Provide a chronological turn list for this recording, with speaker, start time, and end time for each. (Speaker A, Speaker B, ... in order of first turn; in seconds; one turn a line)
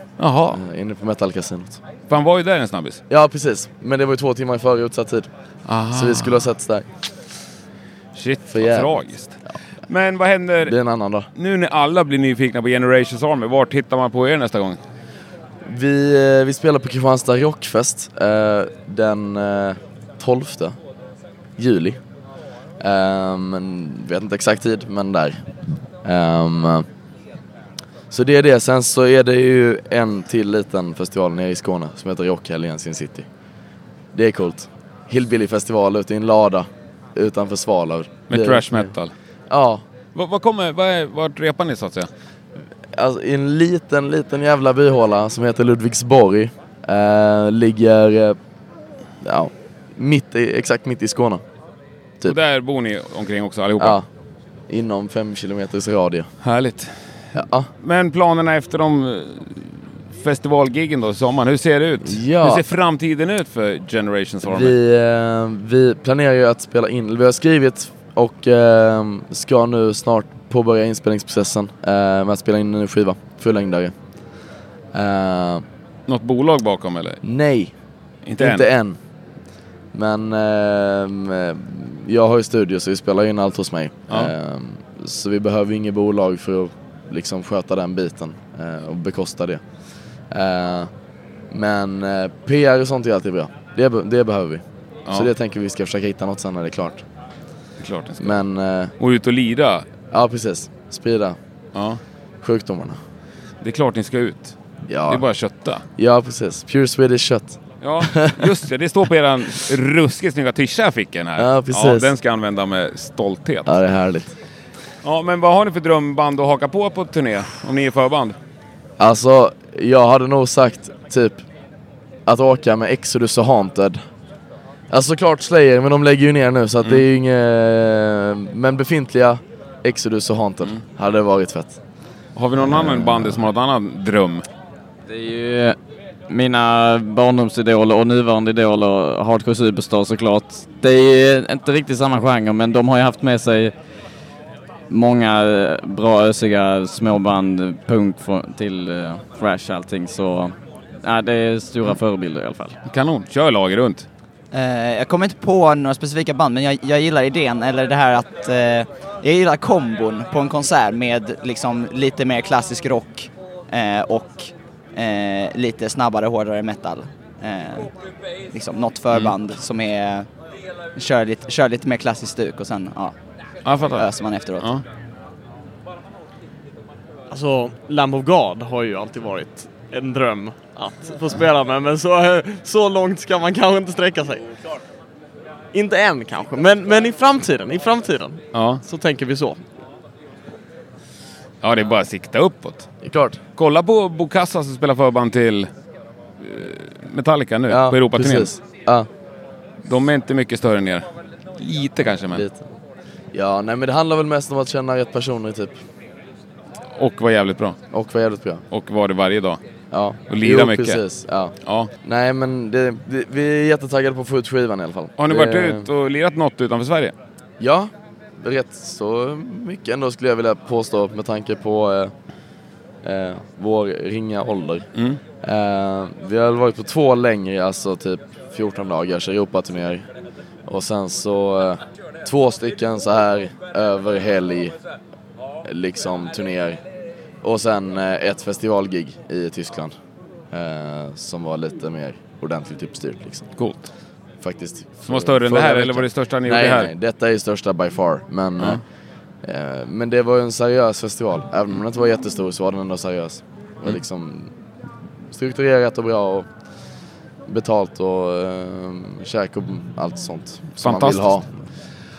Speaker A: 0.2-0.6
Speaker B: 0.5-1.8
Speaker A: 2.1-3.0
Speaker B: 3.1-5.3
Speaker A: 5.7-6.5
Speaker B: 5.9-6.9
Speaker A: 8.2-10.7
Speaker B: 8.5-9.0
Speaker B: 10.7-11.3
Speaker A: 11.3-14.8
Speaker B: 15.7-20.8
Speaker B: 21.6-22.0
Speaker B: 22.8-25.4
Speaker B: 26.1-26.9
Speaker B: 28.1-33.3
Speaker B: 34.1-38.9
Speaker A: 38.3-39.1
Speaker B: 39.5-39.8
Speaker A: 40.1-42.1
Speaker B: 43.0-48.4
Speaker B: 49.2-51.4
Speaker A: 52.3-54.0
Speaker B: 53.8-54.1
Speaker B: 54.7-56.3
Speaker A: 56.4-57.0
Speaker B: 57.4-57.7
Speaker A: 57.8-64.7
Speaker B: 62.0-62.6
Speaker B: 64.5-73.9
Speaker B: 74.9-75.7
Speaker A: 76.1-77.2
Speaker B: 77.2-77.7
Speaker A: 78.3-78.7
Speaker B: 78.4-79.0
Speaker B: 79.9-89.6
Speaker B: 90.3-90.9
Speaker B: 91.5-97.0
Speaker A: 97.8-98.4
Speaker B: 98.2-98.9
Speaker A: 99.0-99.9
Speaker B: 100.1-101.4
Speaker A: 101.8-102.0
Speaker B: 102.4-103.0
Speaker A: 103.6-104.5
Speaker B: 104.9-105.2
Speaker A: 105.1-105.8
Speaker B: 106.0-108.5
Speaker A: 107.8-113.8
Speaker B: 111.4-112.1
Speaker B: 113.7-114.3
Speaker A: 115.0-118.3
Speaker B: 119.0-121.5
Speaker B: 122.3-124.0
Speaker B: 124.9-131.8
Speaker A: 132.4-134.4
Speaker B: 132.6-133.4
Speaker C: 135.1-135.8
Speaker C: 136.3-143.7
Speaker C: 144.9-152.8
Speaker A: 152.9-154.1
Speaker D: 154.5-167.9
Speaker D: 168.5-170.3
Speaker D: 170.9-173.1
Speaker A: 173.7-174.8
Speaker D: 173.9-174.7
Speaker E: 177.3-184.5
Speaker E: 185.7-189.6
Speaker A: 188.5-188.8
Speaker A: 191.6-192.9
Speaker B: 193.0-193.4
Speaker A: 193.6-195.7
Speaker A: 196.4-198.5
Speaker B: 197.7-199.1
Speaker A: 199.8-201.1
Speaker A: 201.6-202.4
Speaker B: 202.3-202.7
Speaker B: 203.3-205.8
Speaker A: 207.0-207.8
Speaker B: 207.9-208.6
Speaker A: 208.7-209.6
Speaker B: 209.9-215.9
Speaker A: 210.3-211.0
Speaker A: 211.6-211.9
Speaker A: 215.2-217.1
Speaker B: 217.6-222.1
Speaker B: 223.0-224.9
Speaker A: 224.9-225.2
Speaker B: 225.4-230.1
Speaker B: 230.7-234.8
Speaker B: 235.6-236.8
Speaker B: 237.4-239.9
Speaker B: 240.5-243.5
Speaker A: 243.6-243.9
Speaker B: 244.4-248.8
Speaker A: 245.1-246.9
Speaker B: 249.4-254.5
Speaker B: 255.3-256.5
Speaker B: 257.5-261.5
Speaker A: 260.8-261.3